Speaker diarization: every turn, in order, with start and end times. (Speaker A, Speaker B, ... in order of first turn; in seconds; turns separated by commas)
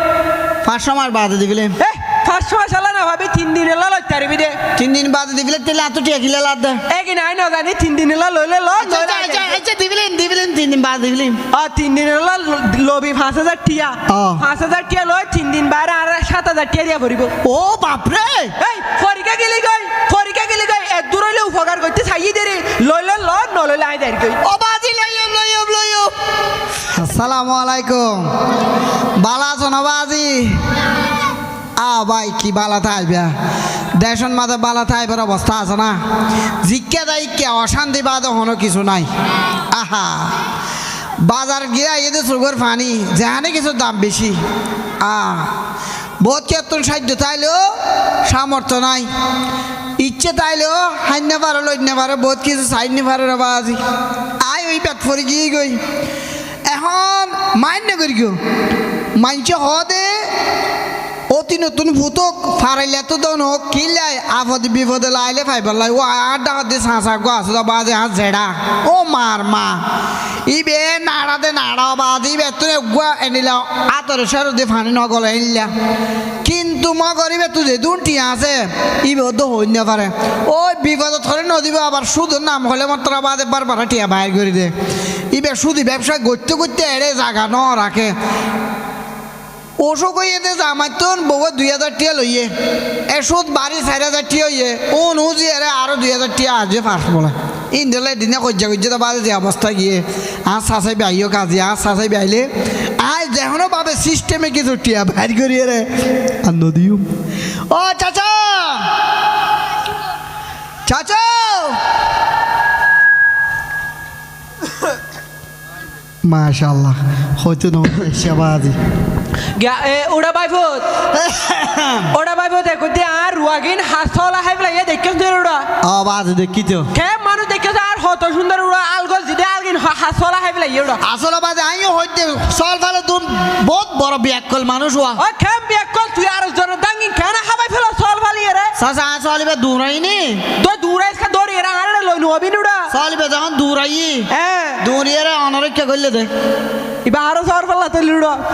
Speaker A: 0.6-1.8, Speaker B: 1.8-4.6, Speaker A: 4.8-6.8, Speaker B: 6.9-9.6, Speaker A: 8.8-11.4, Speaker B: 11.5-17.3, Speaker A: 14.1-14.4, Speaker A: 17.4-18.5, Speaker B: 18.6-24.4, Speaker A: 24.4-26.1, Speaker A: 26.9-28.3, Speaker A: 29.2-30.6, Speaker A: 31.8-33.3, Speaker A: 34.0-36.0, Speaker A: 36.6-39.1, Speaker A: 39.7-40.4, Speaker A: 41.2-44.4, Speaker A: 45.0-45.5, Speaker A: 46.2-47.6, Speaker A: 48.3-49.1, Speaker A: 50.0-53.8, Speaker A: 54.4-55.8, Speaker A: 56.7-58.4, Speaker A: 59.1-60.3, Speaker A: 61.3-69.8, Speaker A: 70.5-75.7, Speaker A: 76.4-84.7, Speaker A: 85.3-88.1, Speaker A: 89.8-92.5, Speaker A: 93.1-107.0, Speaker A: 107.7-108.9, Speaker A: 110.8-111.8, Speaker A: 116.2-118.8, Speaker B: 119.5-121.0, Speaker A: 121.1-122.1, Speaker B: 122.1-125.7, Speaker A: 125.8-126.9, Speaker B: 126.9-131.0, Speaker A: 131.0-135.2, Speaker B: 135.2-138.7, Speaker A: 138.8-140.4, Speaker B: 140.5-142.9, Speaker A: 142.9-144.3, Speaker B: 144.3-144.8, Speaker A: 144.8-146.3, Speaker B: 147.0-148.4